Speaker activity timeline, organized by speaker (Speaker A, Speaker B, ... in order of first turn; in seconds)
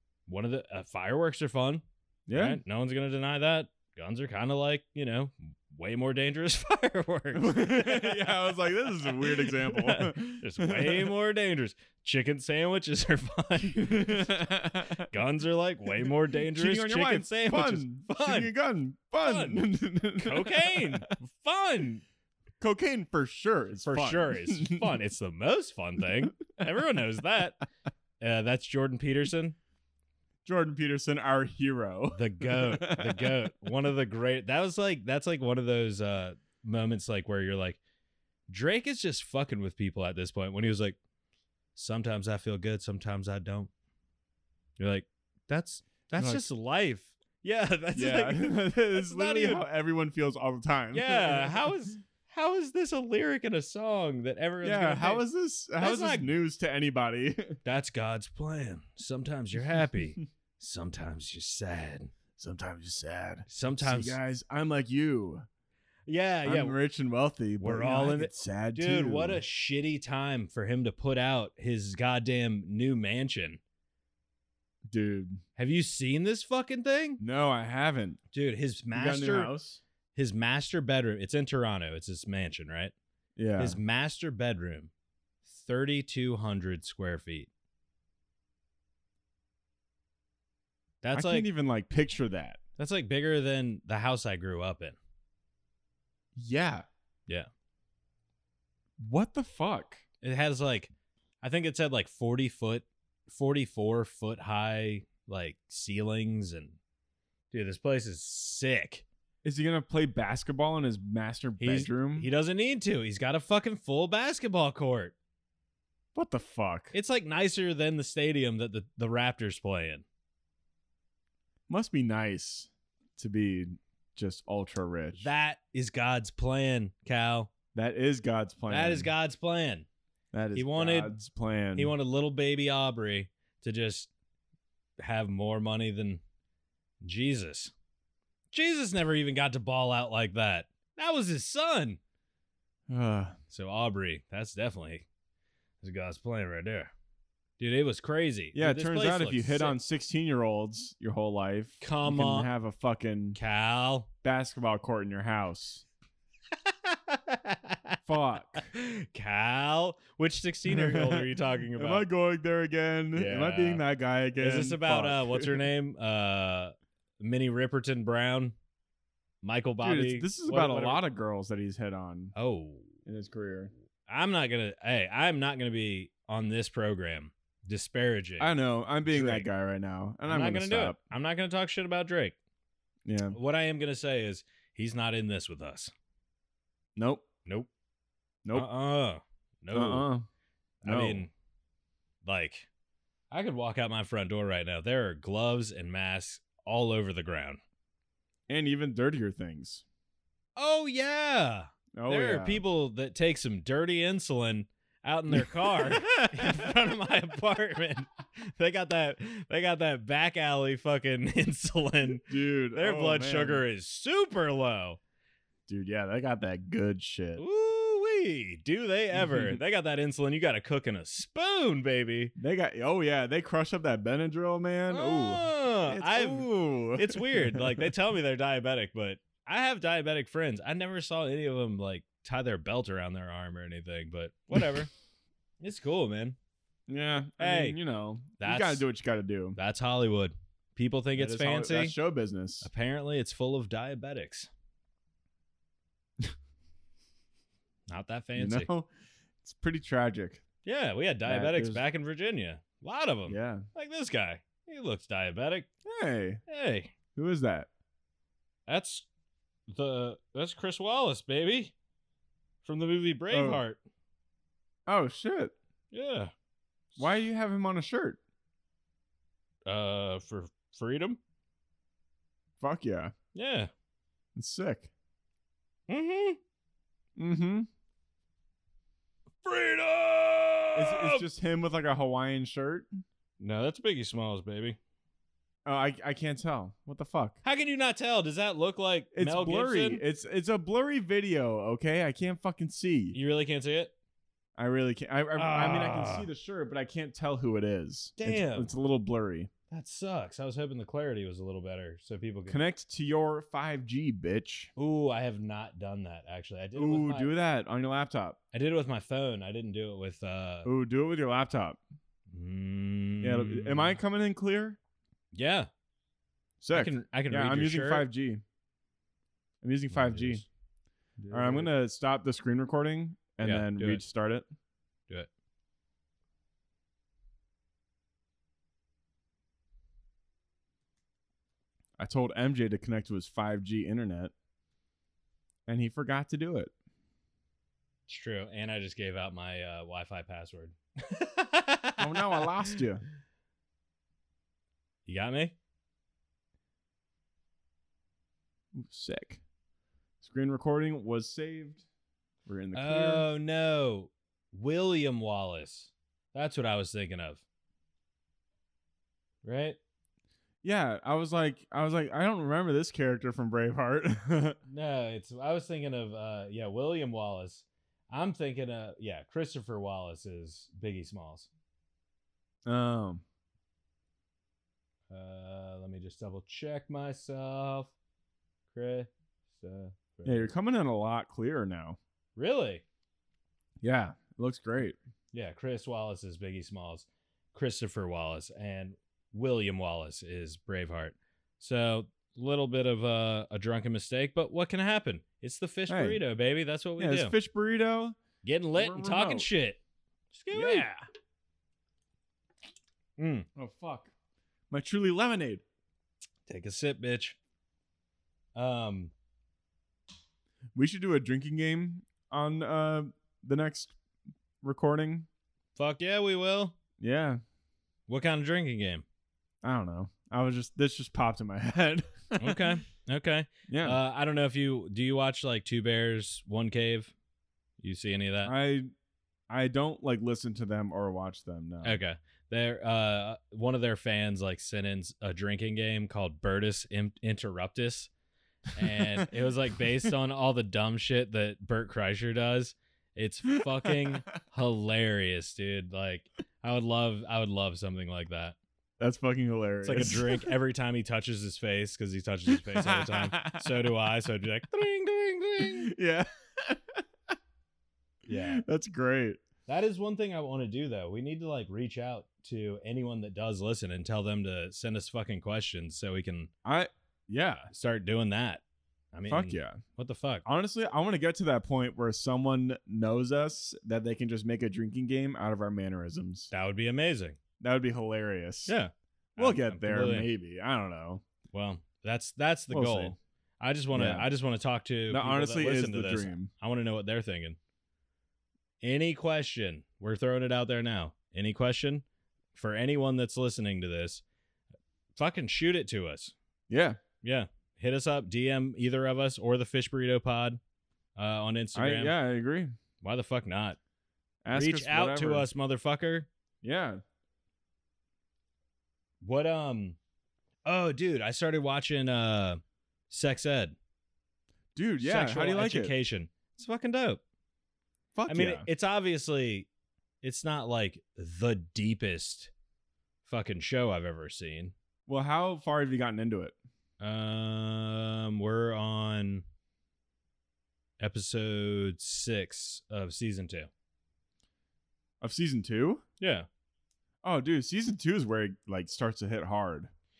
Speaker A: 0.3-14.4, 15.0-18.5, 19.2-22.0, 23.8-27.6, 28.2-29.6, 32.1-37.8, 38.5-41.0, 41.8-43.7, 44.8-49.6, 50.9-55.2, 55.8-56.3, 57.6-62.1, 63.5-64.2, 66.1-66.8, 67.6-73.6, 75.6-77.2, 78.3-79.5, 80.1-82.9, 83.6-84.9, 85.5-87.5, 91.0-91.5, 92.8-95.0, 100.2-100.9, 101.4-106.8, 107.5-109.0, 111.6-115.1, 116.9-120.0, 125.1-127.5, 128.7-129.9, 130.5-131.1, 131.8-134.1, 135.0-136.2, 137.0-137.7, 138.5-142.0, 143.5-145.1, 145.8-146.9, 147.6-149.8, 151.8-152.5, 153.3-154.1, 156.7-158.0, 158.6-162.1, 163.1-163.8, 164.4-168.6, 169.4-171.0, 172.3-172.9, 174.1-178.5, 179.1-179.5, 180.3-182.3, 183.3-185.9, 188.5-190.1, 190.8-191.3, 192.2-192.7, 193.3-197.6, 200.6-215.0, 217.4-222.3, 224.9-234.9, 235.6-236.3, 237.4-237.8, 238.4-238.8, 239.6-241.9, 242.6-244.5, 247.9-248.7, 250.6-255.7, 256.5-256.9, 258.7-259.1, 259.7-261.7, 262.6-263.8, 265.9-266.3, 269.6-271.2, 273.3-273.7, 275.9-276.4, 279.4-281.2, 283.4-284.8, 287.4-290.0, 293.1-293.9, 295.4-296.3, 298.2-298.7, 299.7-302.6, 304.8-307.3, 308.5-310.7, 312.3-314.0, 315.3-315.7, 316.7-318.1, 319.9-320.4, 321.2-321.7, 323.4-324.0, 338.1-342.7, 345.1-345.5, 352.7-357.4, 359.4-359.8, 364.7-371.5, 375.1-377.9, 378.7-380.5, 382.4-382.8, 385.3-397.3, 398.4-399.8, 400.3-401.0, 403.2-403.5, 406.5-407.4, 408.5-409.1, 415.8-416.7, 418.1-419.0, 422.4-427.1, 427.8-428.5, 431.8-438.1, 438.7-448.6, 449.8-455.9, 458.3-458.6, 459.7-466.5, 467.7-468.6, 469.1-470.4, 476.5-477.4, 478.7-480.3, 481.5-487.6, 488.8-492.0, 492.5-494.2, 495.1-496.3, 497.2-500.6, 501.1-502.1, 503.0-503.8, 504.5-506.3, 509.2-510.0, 510.6-513.8, 515.0-517.2, 518.3-519.7, 520.2-522.5, 523.2-524.7, 527.0-529.4, 531.0-533.7, 536.2-536.5
Speaker B: 2.3-2.6, 7.3-11.1, 13.8-15.1, 16.0-21.0, 22.6-25.0, 30.4-33.4, 46.2-46.4, 47.9-51.7, 54.6-57.6, 62.4-65.4, 66.4-69.4, 74.9-75.4, 77.2-78.2, 78.9-79.8, 83.4-83.8, 91.1-92.6, 96.3-96.9, 99.0-100.0, 109.4-112.3, 116.1-116.9, 121.7-125.2, 127.7-129.1, 130.3-131.9, 142.9-143.4, 148.5-153.4, 154.2-155.8, 158.1-158.7, 160.7-165.6, 169.8-172.3, 173.0-173.7, 178.4-181.0, 183.1-183.4, 186.9-187.2, 188.4-188.7, 189.7-190.3, 190.8-191.2, 198.5-199.8, 201.9-202.6, 205.3-206.9, 212.3-213.6, 215.7-217.4, 219.1-219.6, 222.4-227.9, 236.9-239.6, 241.1-242.7, 248.4-248.9, 249.4-250.4, 251.2-251.8, 253.3-253.7, 255.8-256.4, 257.1-257.7, 263.3-263.6, 264.9-265.5, 267.0-268.2, 272.6-273.1, 274.4-274.9, 277.2-277.7, 280.8-282.9, 285.6-287.4, 289.1-293.1, 294.6-299.5, 302.5-304.7, 306.8-308.4, 310.6-311.8, 313.2-314.8, 316.6-318.4, 319.6-320.4, 321.3-324.5, 332.0-334.3, 335.6-336.7, 342.0-343.0, 348.7-349.4, 350.2-351.8, 352.4-353.2, 360.6-364.6, 372.6-373.2, 380.2-382.0, 383.8-385.0, 395.9-396.2, 397.0-398.2, 398.8-399.5, 400.5-400.9, 403.6-404.1, 404.7-405.6, 410.7-413.9, 414.6-415.3, 417.0-417.4, 419.6-422.8, 423.7-424.0, 428.4-428.9, 429.5-432.0, 449.0-450.5, 452.5-453.9, 455.6-457.0, 458.3-459.4, 466.6-467.7, 469.3-469.8, 470.4-476.5, 477.6-478.7, 479.4-481.2, 482.7-483.1, 483.9-484.2, 485.1-486.5, 496.7-497.0, 501.7-502.7, 504.4-505.5, 506.6-507.0, 514.7-515.9, 518.1-518.7, 525.1-526.5, 535.2-536.0, 537.2-539.9